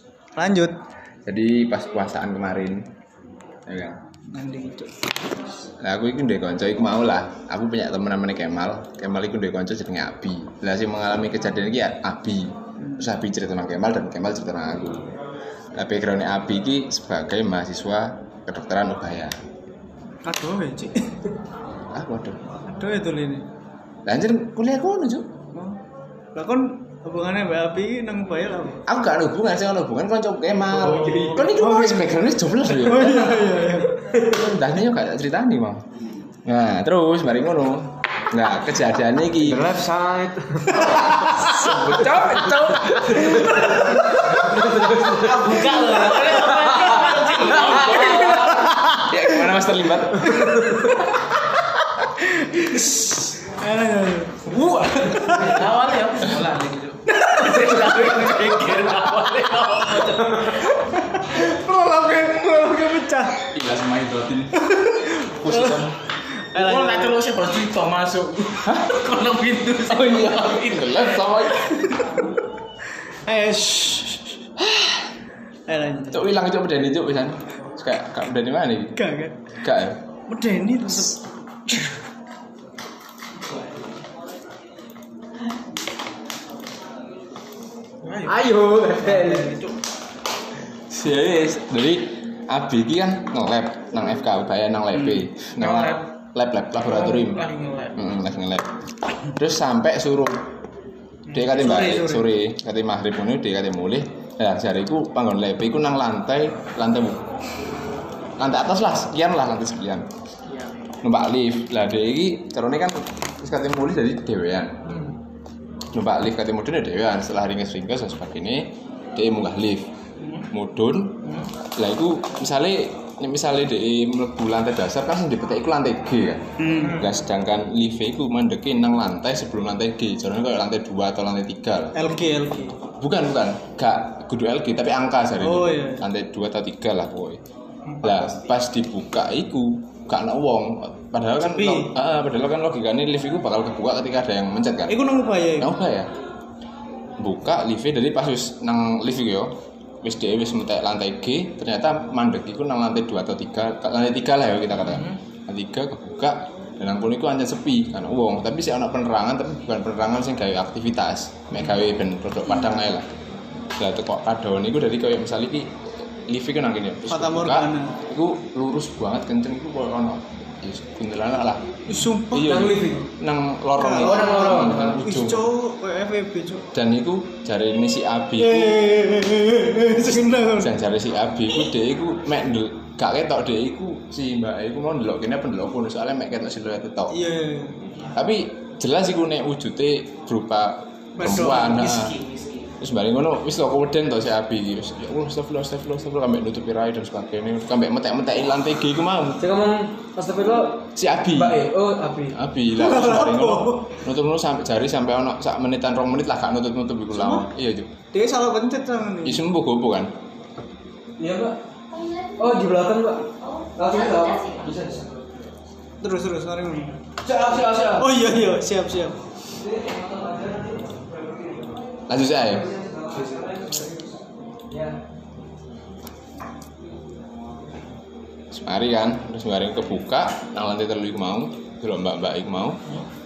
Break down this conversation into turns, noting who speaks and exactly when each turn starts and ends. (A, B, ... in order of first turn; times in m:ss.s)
0:00.4-0:00.8 A
0:01.3-0:02.8 B
0:03.7-0:04.0 B
0:04.3-0:04.9 A
0:05.8-0:15.1 B
0:15.8-0:19.3 B
0:20.2-0:21.1 A
0:21.9-0:22.4 B
0:22.7-0:23.4 A
0:24.1-0:25.3 B
0:25.5-0:25.8 A
0:26.4-0:28.8 A
0:28.9-0:33.5 B
0:30.9-0:31.4 C
0:31.5-0:34.1 A
0:34.2-0:35.8 B
0:36.4-0:39.8 B
0:39.4-0:45.6 C
0:41.6-0:43.5 B
0:45.1-0:48.7 D
0:45.6-0:46.4 A
0:46.6-0:48.0 C
0:47.6-0:50.6 B
0:48.6-0:49.0 A
0:50.5-0:50.8 C
0:52.2-0:55.5 A
0:55.2-1:00.8 D
1:00.6-1:03.5 A
1:03.5-1:04.6 B
1:04.6-1:05.8 A
1:05.3-1:06.0 B
1:06.5-1:07.2 A
1:06.5-1:11.0 D
1:08.6-1:09.0 B
1:09.8-1:12.0 B
1:11.9-1:12.2 A
1:13.2-1:14.4 A
1:14.6-1:15.0 B
1:15.7-1:16.2 A
1:16.1-1:19.0 B
1:19.0-1:19.4 A
1:19.6-1:20.0 B
1:20.3-1:21.9 A
1:28.0-1:29.8 D
1:28.3-1:29.6 C
1:30.9-1:38.7 B
1:35.5-1:36.1 D
1:36.9-1:38.0 D
1:39.3-1:40.4 B
1:41.3-1:47.2 B
1:41.3-1:42.3 A
1:48.4-1:50.1 B
1:51.0-1:54.8 B
1:54.9-1:55.2 D
1:55.9-1:59.9 B
2:00.2-2:00.5 D
2:00.5-2:12.0 B
2:01.2-2:01.5 D
2:06.6-2:07.0 A
2:12.0-2:12.8 A
2:13.0-2:17.4 B
2:15.4-2:16.0 A
2:18.0-2:25.0 B
2:21.5-2:21.9 A
2:24.9-2:25.7 A
2:25.6-2:26.1 B
2:27.2-2:43.1 B
2:34.9-2:35.2 D
2:43.8-2:45.7 B
2:46.3-2:51.6 B
2:47.1-2:48.0 A
2:51.9-2:52.6 A
2:52.3-2:55.5 B
2:52.4-2:53.1 C
2:53.8-2:56.7 A
2:54.0-2:55.0 C
2:56.7-2:58.8 B
2:58.4-3:00.7 A
3:00.6-3:07.1 B
3:07.1-3:07.8 A
3:08.2-3:12.2 B
3:11.2-3:11.9 A
3:11.7-3:12.7 D
3:12.8-3:19.5 B
3:19.4-3:22.4 C
3:21.0-3:21.7 B
3:22.3-3:27.9 B
3:22.8-3:24.0 A
3:27.2-3:27.5 A
3:28.1-3:29.4 A
3:29.2-3:30.1 B
3:31.2-3:31.6 C
3:32.4-3:35.2 C
3:36.0-3:36.9 A
3:37.2-3:38.2 C
3:38.0-3:39.2 A
3:39.6-3:40.8 C
3:42.1-3:42.7 B
3:42.7-3:44.0 C
3:48.5-3:52.8 B